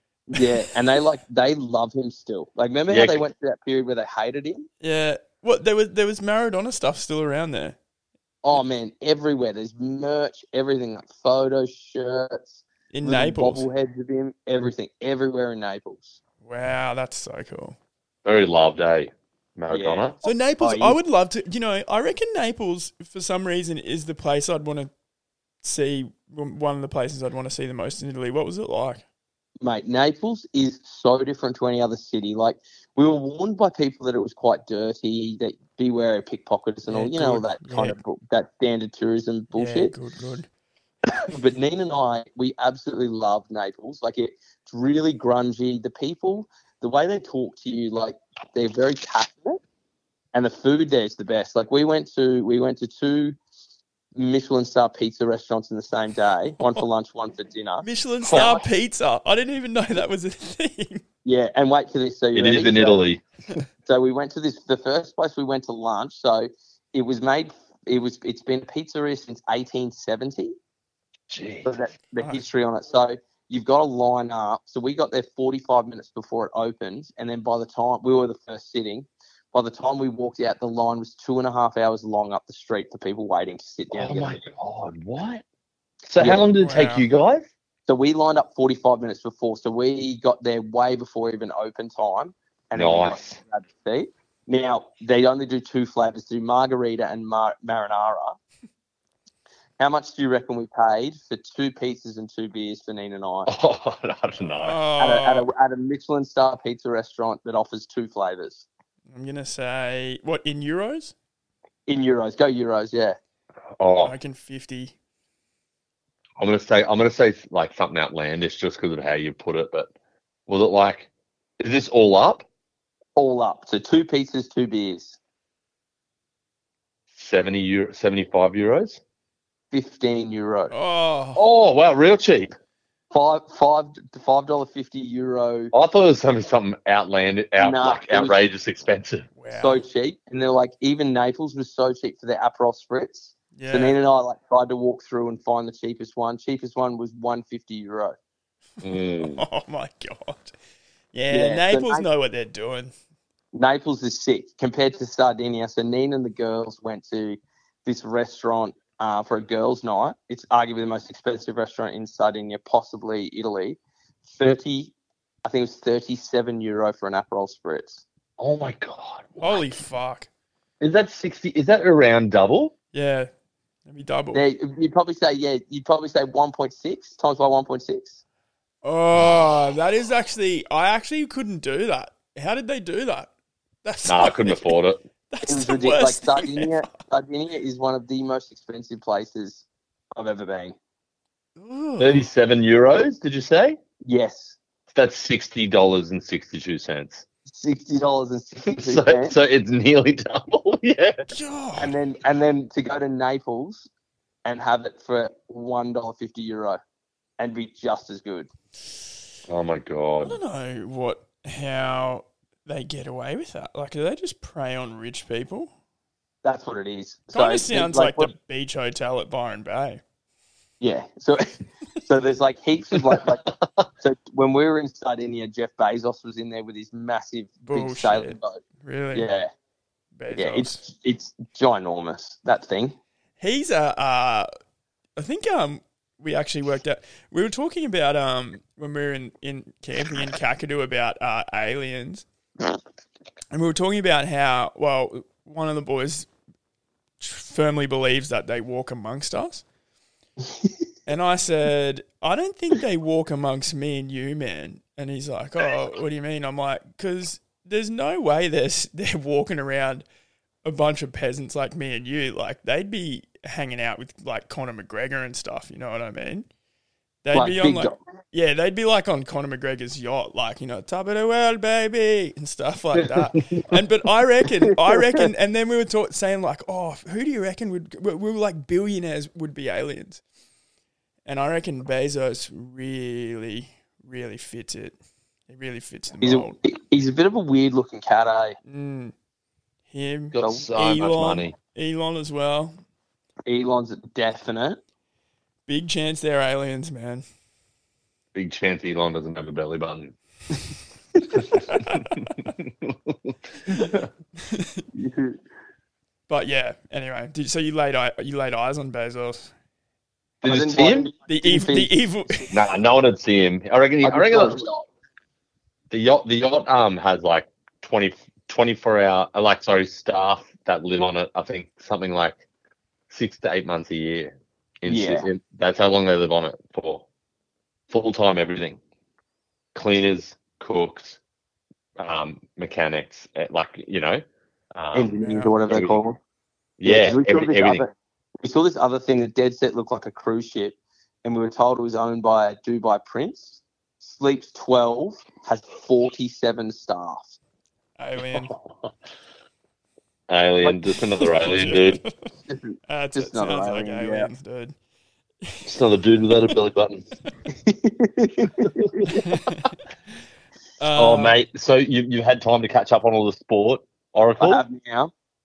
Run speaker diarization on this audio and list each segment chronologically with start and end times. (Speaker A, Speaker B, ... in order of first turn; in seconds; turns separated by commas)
Speaker A: 0.3-4.7, Speaker B: 2.9-3.2, Speaker C: 4.8-7.8, Speaker A: 8.4-16.2, Speaker C: 12.9-13.7, Speaker C: 16.4-17.8, Speaker B: 18.2-20.2, Speaker A: 19.7-21.0, Speaker C: 20.2-24.9, Speaker C: 25.6-29.0, Speaker A: 29.6-39.9, Speaker C: 36.9-38.0, Speaker C: 39.5-40.5, Speaker A: 41.2-49.6, Speaker A: 50.3-53.4, Speaker A: 54.1-58.6, Speaker C: 57.8-61.0, Speaker A: 61.2-63.0, Speaker B: 62.3-63.2, Speaker A: 63.9-70.5, Speaker B: 71.3-71.7, Speaker A: 71.6-84.4, Speaker C: 72.2-72.4, Speaker B: 83.9-85.4, Speaker B: 86.1-87.5, Speaker A: 86.2-86.4, Speaker C: 86.6-87.0, Speaker A: 87.9-98.3, Speaker B: 92.8-93.4, Speaker A: 99.8-103.5, Speaker B: 103.5-104.8, Speaker C: 104.6-105.5, Speaker A: 105.0-108.6, Speaker C: 109.1-111.1, Speaker A: 111.9-113.2, Speaker B: 113.8-114.1, Speaker C: 114.0-114.9, Speaker B: 116.4-119.9, Speaker B: 120.5-121.1, Speaker B: 121.6-122.4, Speaker A: 123.2-125.2, Speaker B: 127.1-129.0, Speaker A: 129.7-130.7, Speaker C: 130.7-131.4, Speaker B: 131.3-132.5, Speaker A: 133.1-135.7, Speaker B: 135.7-139.3, Speaker A: 137.6-138.4, Speaker C: 139.4-139.8, Speaker A: 139.5-148.2, Speaker C: 143.5-143.9, Speaker B: 148.8-149.4, Speaker C: 149.2-150.5, Speaker C: 151.1-152.9, Speaker A: 151.3-152.0, Speaker A: 153.5-164.9, Speaker A: 165.4-168.0, Speaker B: 168.4-169.8, Speaker C: 169.4-170.3, Speaker B: 170.8-172.7, Speaker C: 172.9-173.3, Speaker C: 173.9-174.4, Speaker A: 174.3-178.2, Speaker C: 178.8-183.3, Speaker C: 183.8-184.8, Speaker B: 184.1-185.0, Speaker C: 185.3-186.9, Speaker A: 185.4-189.6, Speaker A: 190.2-190.8, Speaker C: 191.6-192.2, Speaker B: 192.0-193.8, Speaker A: 194.0-194.6, Speaker B: 194.9-197.2, Speaker A: 197.5-199.3, Speaker B: 198.7-201.2, Speaker C: 201.3-201.9, Speaker A: 201.8-203.9, Speaker A: 204.4-206.8, Speaker A: 207.4-208.5, Speaker B: 209.5-210.4, Speaker C: 210.2-215.7, Speaker A: 216.4-218.3, Speaker C: 217.3-220.0, Speaker A: 220.8-221.4, Speaker A: 222.0-223.4, Speaker A: 224.0-228.6, Speaker C: 227.7-229.3, Speaker A: 229.1-229.5, Speaker C: 230.2-230.8, Speaker A: 230.3-232.9, Speaker C: 233.4-234.5, Speaker C: 235.2-242.2, Speaker C: 243.5-246.3, Speaker C: 247.2-249.6, Speaker C: 251.1-260.0, Speaker C: 260.6-266.4, Speaker C: 267.2-280.2, Speaker A: 267.3-268.0, Speaker C: 281.2-285.0, Speaker C: 285.5-286.6, Speaker A: 286.2-288.6, Speaker C: 288.6-289.1, Speaker C: 289.9-292.8, Speaker B: 290.3-291.5, Speaker A: 290.4-290.7, Speaker A: 293.4-294.8, Speaker C: 295.7-297.2, Speaker B: 298.3-300.1, Speaker C: 301.5-302.1, Speaker B: 301.5-303.8, Speaker C: 304.5-304.8, Speaker A: 304.9-305.4, Speaker C: 306.3-309.5, Speaker B: 310.4-311.1, Speaker A: 310.4-312.5, Speaker C: 311.3-312.5, Speaker B: 312.5-314.6, Speaker A: 314.0-314.8, Speaker B: 315.9-322.4, Speaker B: 323.1-327.0, Speaker A: 324.9-325.3, Speaker B: 327.9-328.8, Speaker B: 329.7-331.2, Speaker B: 332.0-334.2, Speaker B: 334.7-335.1, Speaker A: 334.9-336.2, Speaker C: 335.2-335.5, Speaker B: 335.7-335.9, Speaker B: 336.8-337.8, Speaker A: 336.8-347.3, Speaker C: 348.0-348.5, Speaker B: 350.3-352.0, Speaker C: 351.2-352.3, Speaker A: 352.5-354.3, Speaker C: 352.9-354.7, Speaker C: 355.4-355.7, Speaker B: 355.6-357.0, Speaker A: 357.5-359.2, Speaker C: 359.1-359.7, Speaker C: 360.8-361.4, Speaker B: 361.0-364.6, Speaker A: 364.4-365.1